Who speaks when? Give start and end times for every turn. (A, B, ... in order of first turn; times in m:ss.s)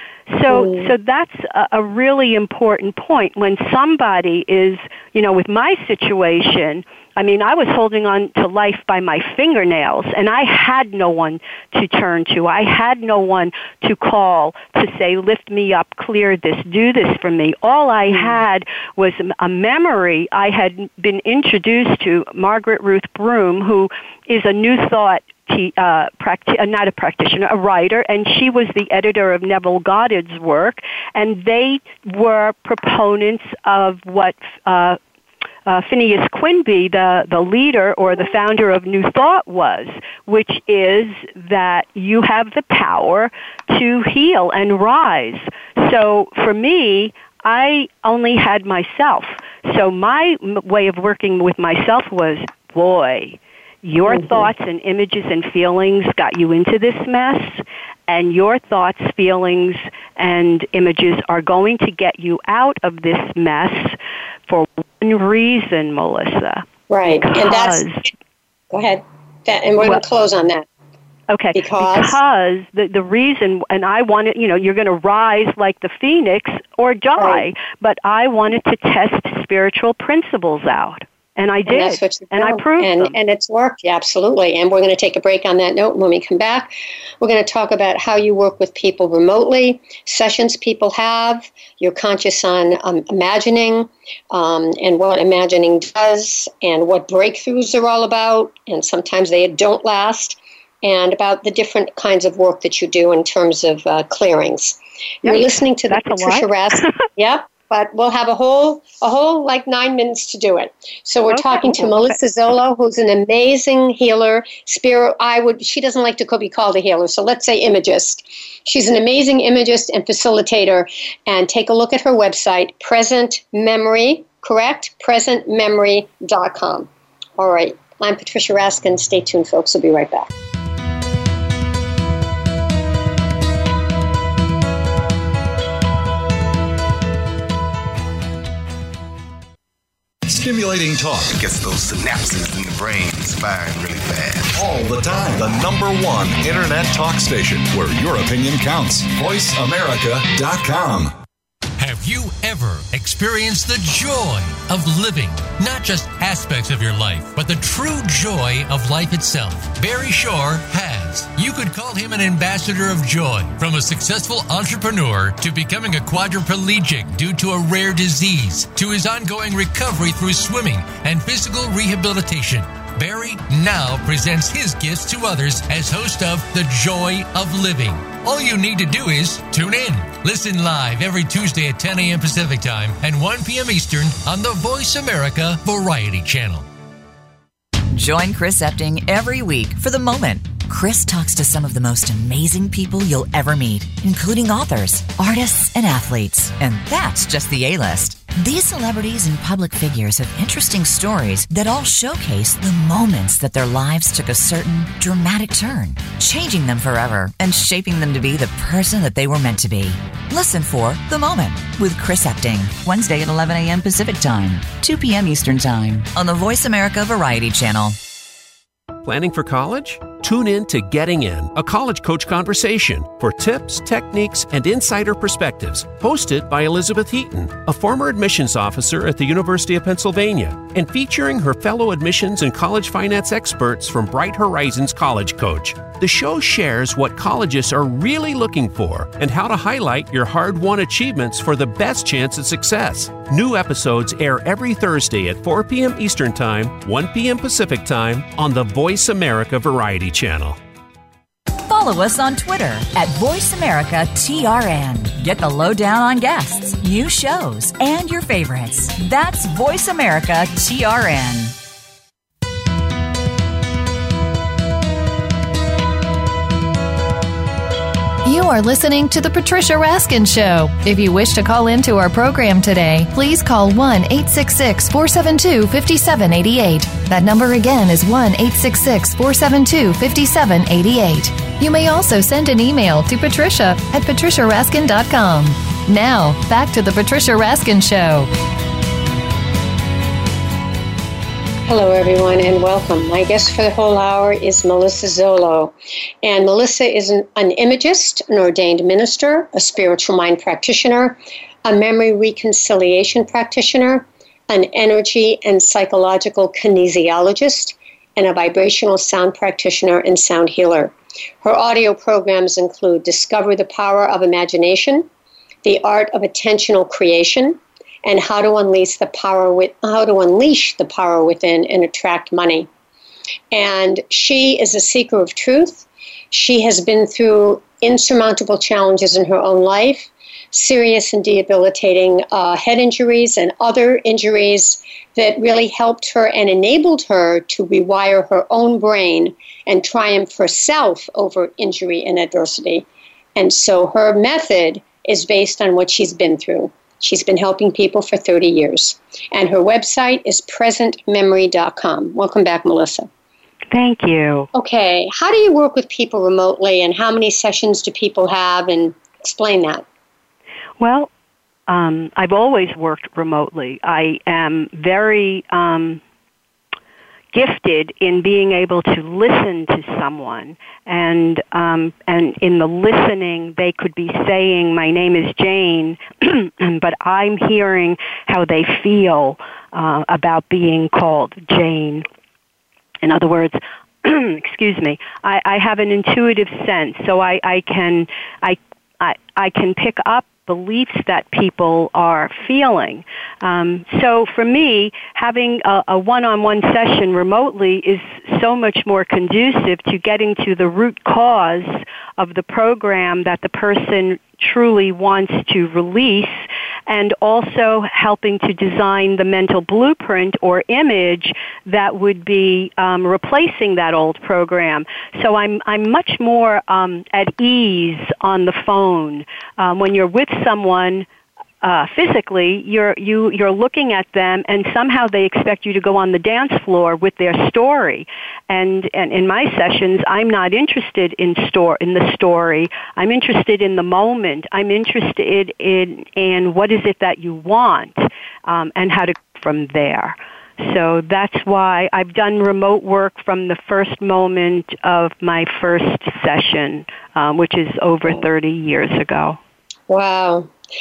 0:00.3-0:35.0 A
0:00.5-0:00.9 B
0:18.1-0:18.4 B
0:35.6-1:04.0 A
0:54.0-0:54.5 B
1:04.5-1:08.0 A
1:06.9-1:07.8 B
1:08.7-1:10.6 B
1:11.3-1:23.1 A
1:11.5-1:12.2 B
1:17.2-1:17.4 B
1:21.6-1:26.7 B
1:27.2-2:10.3 B
1:45.2-1:47.0 A
1:51.3-1:52.2 A
2:20.2-2:21.3 C
2:21.3-2:24.6 D
2:24.5-2:31.1 C
2:31.8-3:06.6 E
3:07.9-3:38.0 F
3:39.0-4:10.6 G
4:11.6-4:21.6 F
4:28.2-4:48.3 H
4:51.6-5:15.0 B
5:15.6-5:22.7 B
5:23.5-5:53.1 B
5:53.7-5:54.5 A
5:54.5-5:59.8 B
6:00.8-6:01.1 A
6:01.7-6:06.0 A
6:07.3-6:22.0 A
6:23.0-7:01.0 A
7:01.6-7:29.4 A
7:29.9-7:30.5 B